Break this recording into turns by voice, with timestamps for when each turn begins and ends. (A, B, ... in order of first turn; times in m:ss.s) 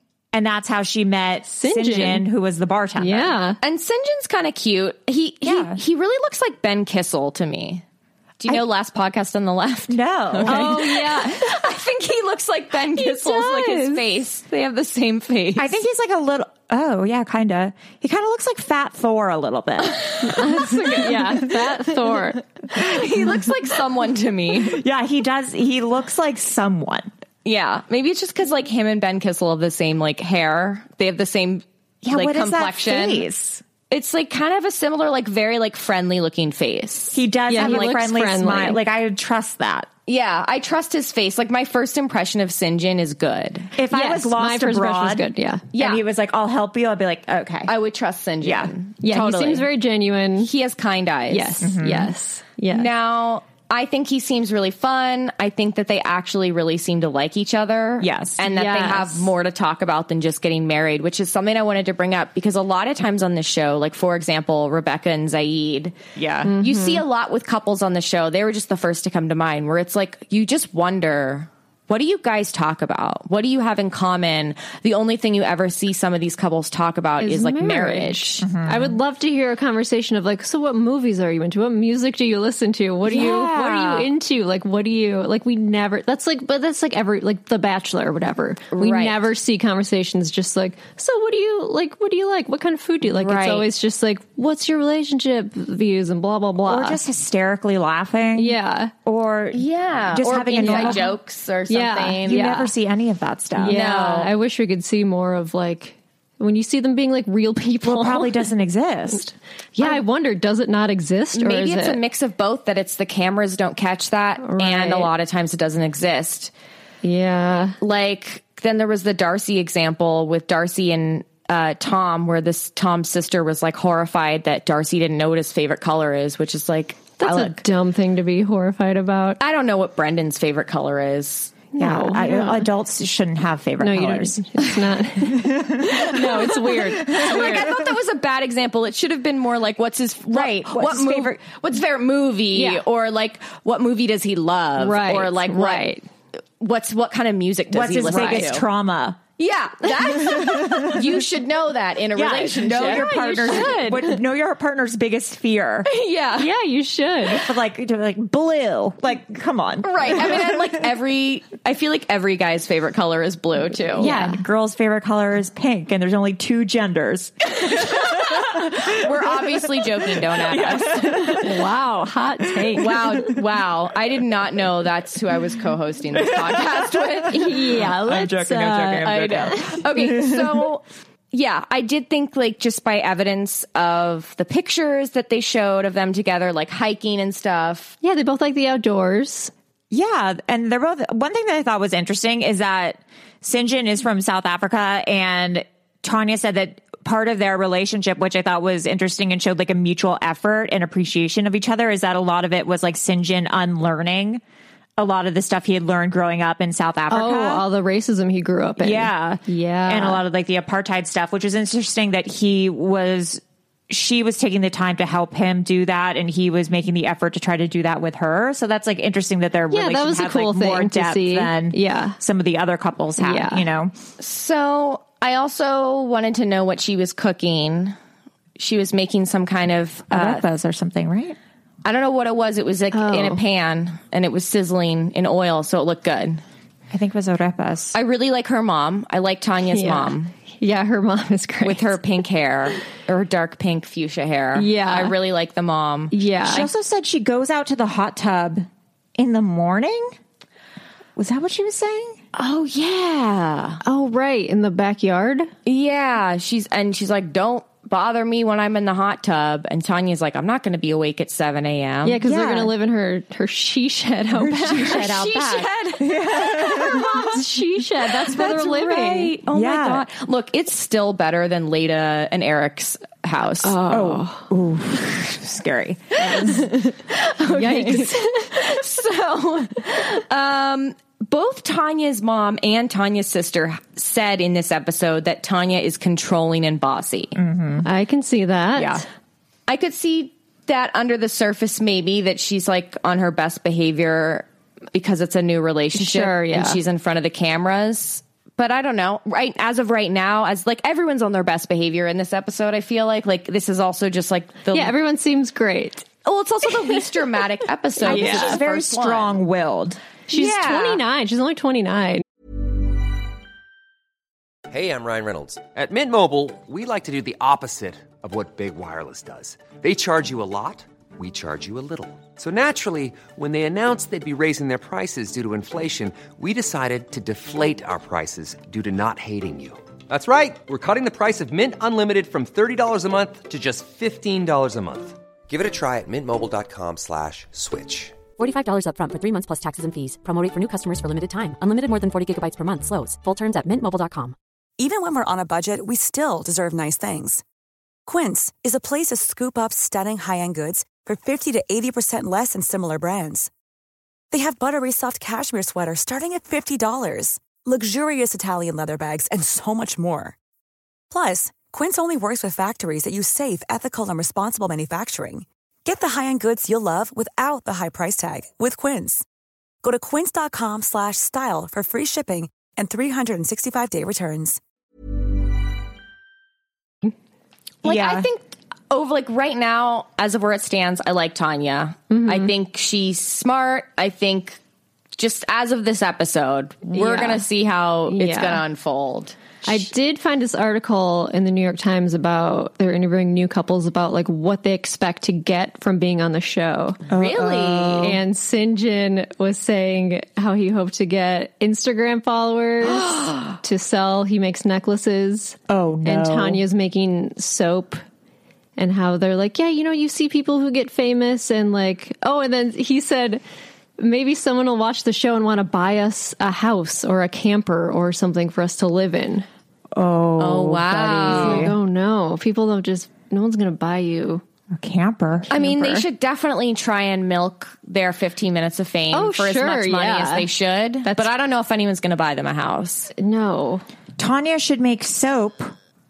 0:00.3-0:03.4 A
0:01.5-0:02.2 B
0:03.0-0:03.6 B
0:03.6-0:07.8 C
0:05.4-0:05.8 A
0:08.4-0:15.8 C
0:09.9-0:10.9 A
0:10.4-0:11.5 B
0:12.9-0:14.0 B
0:15.6-0:21.4 A
0:19.8-0:20.2 C
0:20.2-0:22.4 B
0:20.7-0:21.0 C
0:22.7-0:24.8 C
0:24.6-0:27.1 A
0:27.4-0:33.2 C
0:32.0-0:33.6 A
0:33.9-0:38.0 C
0:37.1-0:39.9 A
0:37.5-0:38.8 B
0:40.1-0:43.7 C
0:43.8-0:47.7 A
0:43.9-0:45.7 B
0:45.7-0:46.0 C
0:47.7-0:49.7 C
0:48.4-0:48.7 A
0:49.0-0:50.5 B
0:50.4-0:51.6 C
0:51.3-0:52.9 B
0:51.6-0:52.1 A
0:52.7-1:05.9 C
0:58.0-0:58.4 A
0:58.4-0:59.3 B
1:06.2-1:06.5 A
1:06.4-1:07.0 B
1:06.6-1:18.4 C
1:17.2-1:37.0 B
1:18.4-1:19.0 A
1:23.0-1:24.1 A
1:28.7-1:29.2 C
1:33.1-1:33.6 C
1:36.6-1:41.1 A
1:38.4-1:38.9 B
1:39.5-1:42.5 C
1:40.6-1:41.1 B
1:41.7-1:42.7 B
1:42.2-1:43.8 A
1:43.6-1:48.4 B
1:43.7-1:44.3 C
1:47.8-1:49.3 A
1:49.8-1:52.0 B
1:51.3-1:56.5 C
1:54.4-1:55.1 B
1:57.0-1:57.8 B
1:57.8-2:07.6 C
2:07.2-2:09.4 B
2:09.4-2:11.7 C
2:11.7-2:12.6 B
2:11.8-2:14.6 A
2:13.8-2:17.7 B
2:15.3-2:17.7 A
2:16.0-2:25.9 C
2:20.3-2:21.4 A
2:22.5-2:22.8 B
2:24.8-2:26.0 B
2:26.6-2:28.6 C
2:27.7-2:29.2 A
2:29.4-2:33.7 C
2:30.3-2:31.0 A
2:32.1-2:35.9 A
2:32.7-2:34.2 B
2:35.9-2:36.5 C
2:36.4-2:37.4 B
2:37.3-2:40.8 A
2:39.8-2:44.1 C
2:44.0-2:44.4 B
2:44.0-2:51.6 A
2:47.6-2:51.4 C
2:51.4-2:53.2 B
2:52.5-2:53.2 A
2:52.8-2:57.8 C
2:56.1-3:00.7 A
2:57.3-2:59.1 B
2:59.0-3:07.9 C
3:08.0-3:09.5 B
3:09.9-3:24.4 A
3:25.0-3:27.6 A
3:27.1-3:30.2 B
3:28.8-3:43.9 A
3:39.7-3:42.2 B
3:43.2-3:43.6 B
3:44.2-3:48.0 C
3:48.6-3:50.4 C
3:50.1-3:51.4 A
3:51.8-3:56.4 C
3:52.9-3:53.4 B
3:56.9-3:58.0 A
3:57.9-4:00.3 C
3:59.7-4:02.0 B
4:01.6-4:06.1 C
4:04.5-4:05.2 B
4:06.1-4:06.7 B
4:06.4-4:10.1 A
4:11.2-4:12.2 A
4:12.3-4:13.8 C
4:13.8-4:15.5 B
4:15.6-4:22.2 C
4:22.0-4:25.1 B
4:22.2-4:22.7 A
4:24.3-4:27.4 A
4:24.9-4:27.4 C
4:27.1-4:29.3 B
4:28.1-4:33.8 C
4:29.5-4:30.0 A
4:33.6-4:34.4 B
4:33.9-4:36.2 A
4:36.2-4:36.9 B
4:36.3-4:47.4 C
4:37.5-4:38.6 B
4:47.4-4:47.8 A
4:47.8-4:49.0 B
4:48.8-4:49.0 A
4:49.7-5:04.9 C
4:55.9-4:56.8 B
5:04.7-5:06.1 B
5:06.2-5:09.4 C
5:08.0-5:08.6 B
5:08.0-5:10.0 A
5:10.3-5:12.2 B
5:10.3-5:11.0 C
5:14.7-5:38.2 D
5:38.4-5:44.4 E
5:44.8-5:47.4 F
5:48.0-5:53.5 F
5:54.3-6:00.4 F
6:01.1-6:09.2 F
6:09.8-6:14.6 F
6:17.8-6:24.6 C
6:17.8-6:18.3 A
6:22.1-6:22.5 B
6:25.1-6:29.6 C
6:26.9-6:27.4 B
6:28.1-6:28.6 B
6:29.6-6:37.0 B
6:37.1-6:38.2 A
6:37.1-6:38.2 C
6:38.0-6:48.0 B
6:43.0-6:43.6 C
6:45.7-6:46.6 A
6:48.8-6:53.4 B
6:54.0-6:59.4 B
6:59.9-7:01.8 A
7:00.4-7:01.7 C
7:01.3-7:04.4 B
7:04.7-7:06.0 A
7:05.5-7:13.1 C
7:09.1-7:10.5 B
7:13.2-7:13.8 B
7:14.2-7:15.7 A